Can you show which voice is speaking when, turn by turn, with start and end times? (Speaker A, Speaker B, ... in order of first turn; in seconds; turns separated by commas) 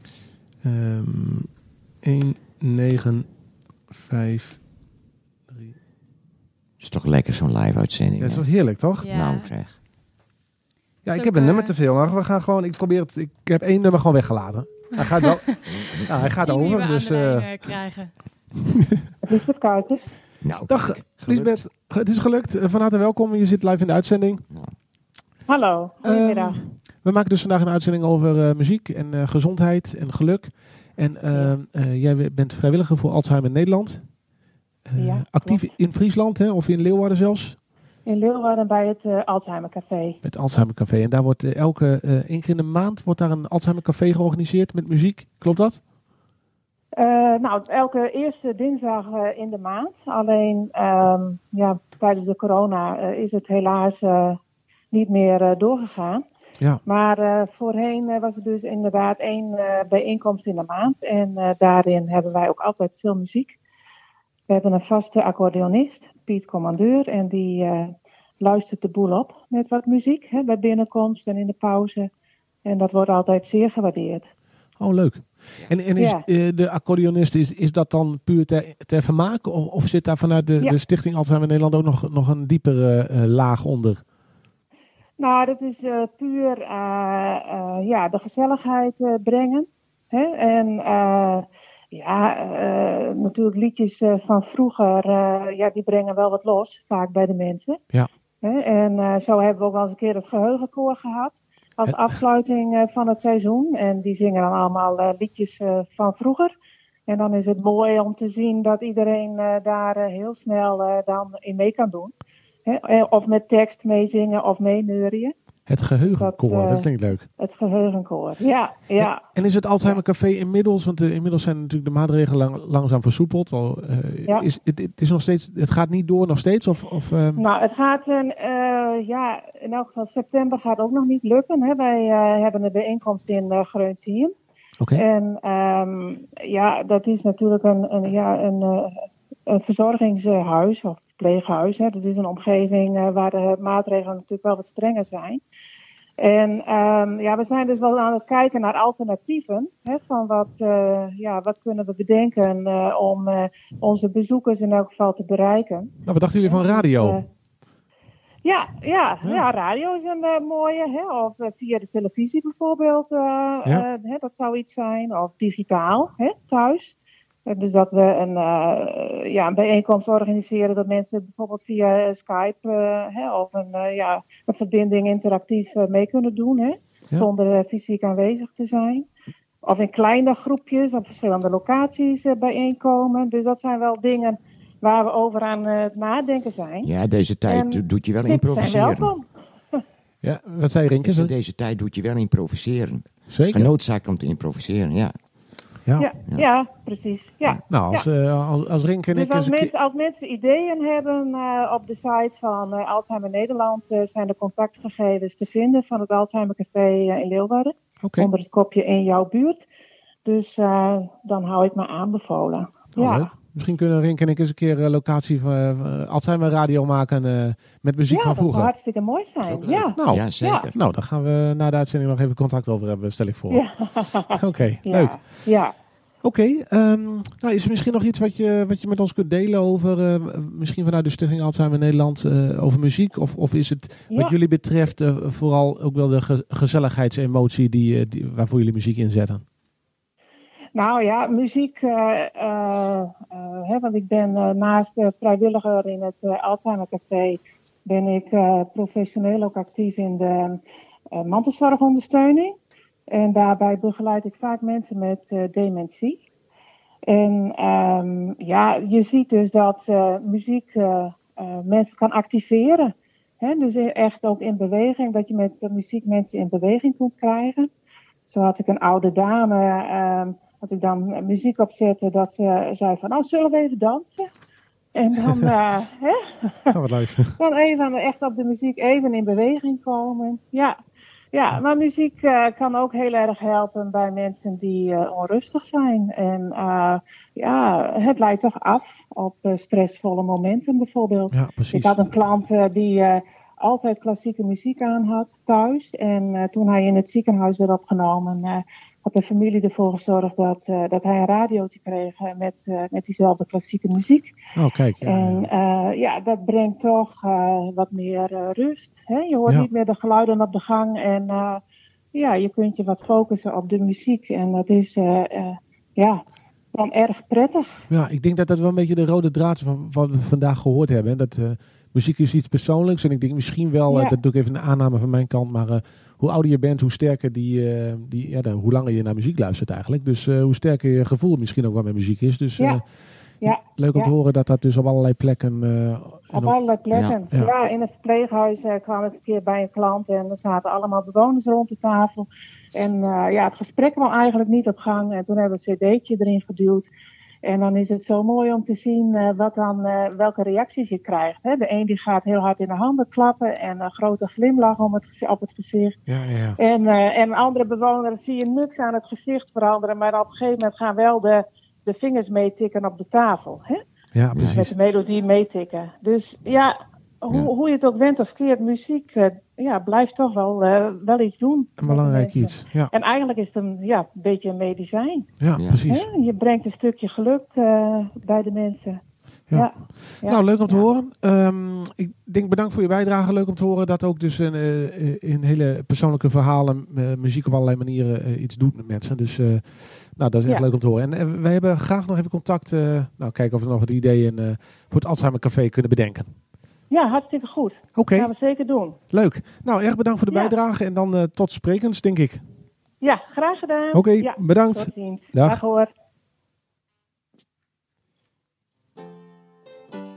Speaker A: 0.6-3.3, Speaker A: 3.9-4.7, Speaker A: 5.5-5.8, Speaker B: 6.8-9.8, Speaker A: 8.2-9.1, Speaker C: 9.0-9.5, Speaker A: 11.0-17.7, Speaker C: 11.1-11.7, Speaker B: 15.7-16.4, Speaker C: 16.4-18.1, Speaker D: 19.2-20.0, Speaker B: 20.4-21.6, Speaker A: 20.7-24.4, Speaker D: 25.5-26.6, Speaker A: 26.0-34.1, Speaker A: 34.9-37.6, Speaker D: 35.0-35.7, Speaker D: 38.0-40.2, Speaker A: 40.2-45.8, Speaker D: 46.9-54.4, Speaker D: 54.9-56.2, Speaker D: 56.8-63.6, Speaker D: 64.5-72.1, Speaker D: 72.6-74.3, Speaker A: 74.8-84.0, Speaker D: 76.0-76.2, Speaker D: 85.2-97.8, Speaker D: 98.4-106.5, Speaker D: 107.1-112.1, Speaker D: 112.7-115.3, Speaker A: 115.7-117.3, Speaker D: 116.0-119.2, Speaker A: 119.0-127.4, Speaker D: 127.3-134.3, Speaker D: 134.9-145.4, Speaker D: 146.2-157.2, Speaker A: 156.0-157.2, Speaker D: 158.4-179.1, Speaker D: 179.6-186.9, Speaker B: 186.8-189.1, Speaker D: 187.4-189.8, Speaker A: 190.2-191.3, Speaker B: 191.1-195.1, Speaker A: 193.3-193.7, Speaker D: 196.0-198.1, Speaker A: 197.7-199.7, Speaker D: 199.1-209.7, Speaker A: 208.0-208.3, Speaker D: 210.2-213.3, Speaker A: 212.9-218.7, Speaker D: 218.1-220.7, Speaker B: 219.4-220.8, Speaker A: 220.0-223.6, Speaker D: 223.5-225.7, Speaker A: 224.3-225.3, Speaker A: 226.2-239.4, Speaker D: 240.7-250.6, Speaker D: 251.1-252.6, Speaker D: 253.1-256.2, Speaker D: 257.1-267.7, Speaker D: 268.3-274.3, Speaker D: 274.9-276.8, Speaker A: 276.7-277.4, Speaker D: 277.4-280.8, Speaker D: 281.3-304.3, Speaker A: 291.3-292.0, Speaker A: 304.5-305.5, Speaker D: 305.0-311.6, Speaker D: 312.1-317.7, Speaker A: 317.9-332.8, Speaker D: 323.9-324.1, Speaker A: 333.4-336.5, Speaker D: 333.4-334.1, Speaker D: 336.3-346.9, Speaker B: 336.9-337.2, Speaker D: 347.4-356.0, Speaker A: 356.1-356.6, Speaker D: 356.6-363.8, Speaker A: 364.1-364.7, Speaker B: 364.3-364.6, Speaker D: 364.5-375.3, Speaker A: 371.8-372.9, Speaker A: 375.4-376.1, Speaker B: 375.5-375.8, Speaker D: 375.9-380.8, Speaker A: 379.5-396.3, Speaker D: 396.9-399.0, Speaker A: 397.9-398.3, Speaker A: 399.1-402.4, Speaker D: 400.3-400.5, Speaker D: 403.0-405.9, Speaker A: 403.9-405.6